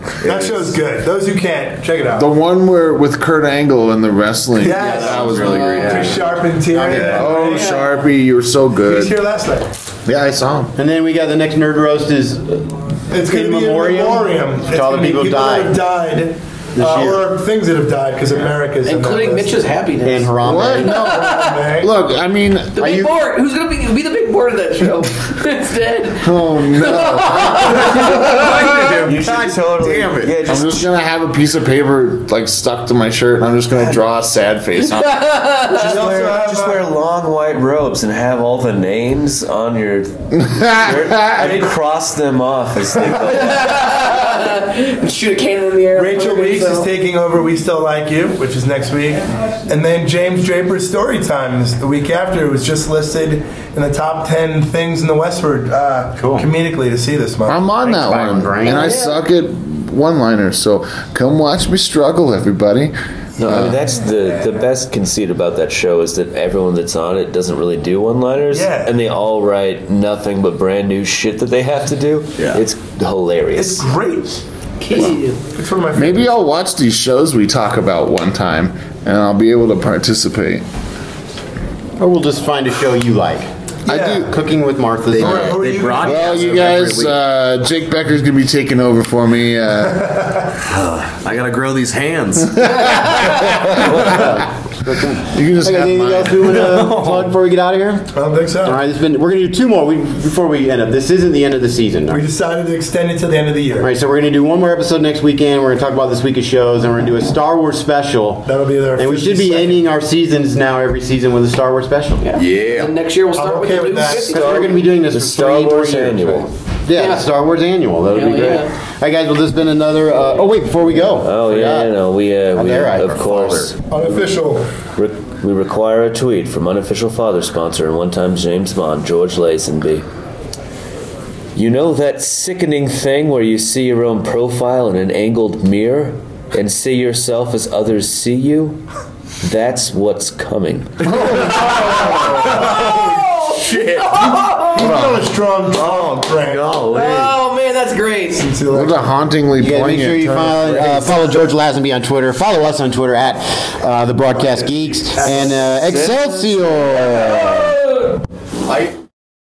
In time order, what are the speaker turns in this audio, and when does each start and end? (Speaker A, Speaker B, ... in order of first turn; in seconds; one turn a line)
Speaker A: 0.2-0.8
Speaker B: 0.2-2.3
Speaker C: 2.2-5.9
Speaker B: 4.6-7.9
Speaker A: 4.7-7.4
Speaker D: 4.7-6.0
Speaker D: 6.9-7.2
Speaker C: 7.0-9.2
Speaker E: 7.6-7.9
Speaker B: 8.8-9.7
Speaker C: 10.1-10.7
Speaker D: 10.8-15.8
Speaker B: 13.1-19.5
Speaker D: 16.8-17.3
Speaker E: 18.8-21.7
Speaker D: 20.0-21.1
Speaker C: 20.4-23.1
Speaker B: 20.9-21.9
Speaker E: 22.7-28.3
Speaker C: 26.2-28.7
Speaker D: 28.2-30.6
Speaker A: 28.3-29.3
Speaker F: 29.1-30.9
Speaker C: 30.4-36.3
Speaker E: 35.0-35.8
Speaker F: 35.7-44.0
Speaker B: 35.7-36.8
Speaker C: 40.4-41.5
Speaker B: 41.4-41.7
Speaker E: 43.3-46.9
Speaker B: 46.0-57.7
Speaker D: 56.2-56.5
Speaker C: 57.5-62.9
Speaker D: 57.8-59.0
Speaker E: 58.6-59.2
Speaker F: 63.4-73.9
Speaker C: 63.4-63.8
Speaker B: 68.5-69.0
Speaker B: 73.6-74.3
Speaker E: 74.8-75.4
Speaker B: 75.5-76.3
Speaker C: 75.9-80.6
Speaker D: 82.0-83.5
Speaker B: 83.8-84.3
Speaker C: 83.9-84.3
Speaker D: 84.2-87.2
Speaker B: 85.1-86.9
Speaker C: 85.2-90.3
Speaker B: 89.9-90.4
Speaker A: 90.6-93.2
Speaker C: 92.6-93.4
Speaker D: 93.7-98.1
Speaker C: 95.3-96.8
Speaker A: 96.6-97.3
Speaker B: 98.1-98.8
Speaker D: 98.6-102.2
Speaker B: 102.1-103.9
Speaker D: 103.8-112.3
Speaker B: 108.5-109.9
Speaker E: 112.2-114.7
Speaker A: 112.3-113.0
Speaker B: 113.3-114.5
Speaker F: 114.2-116.5
Speaker D: 114.3-122.0
Speaker E: 117.0-117.3
Speaker E: 118.1-118.7
Speaker F: 121.0-124.3
Speaker D: 122.5-123.7
Speaker A: 123.1-123.7
Speaker B: 123.8-124.7
Speaker F: 125.0-130.1
Speaker F: 131.6-138.8
Speaker F: 139.4-141.2
Speaker A: 141.2-147.4
Speaker E: 141.3-145.0
Speaker B: 144.7-146.7
Speaker E: 146.9-148.5
Speaker B: 148.4-149.3
Speaker C: 148.7-151.2
Speaker D: 149.6-157.8
Speaker B: 154.4-155.7
Speaker A: 158.7-158.9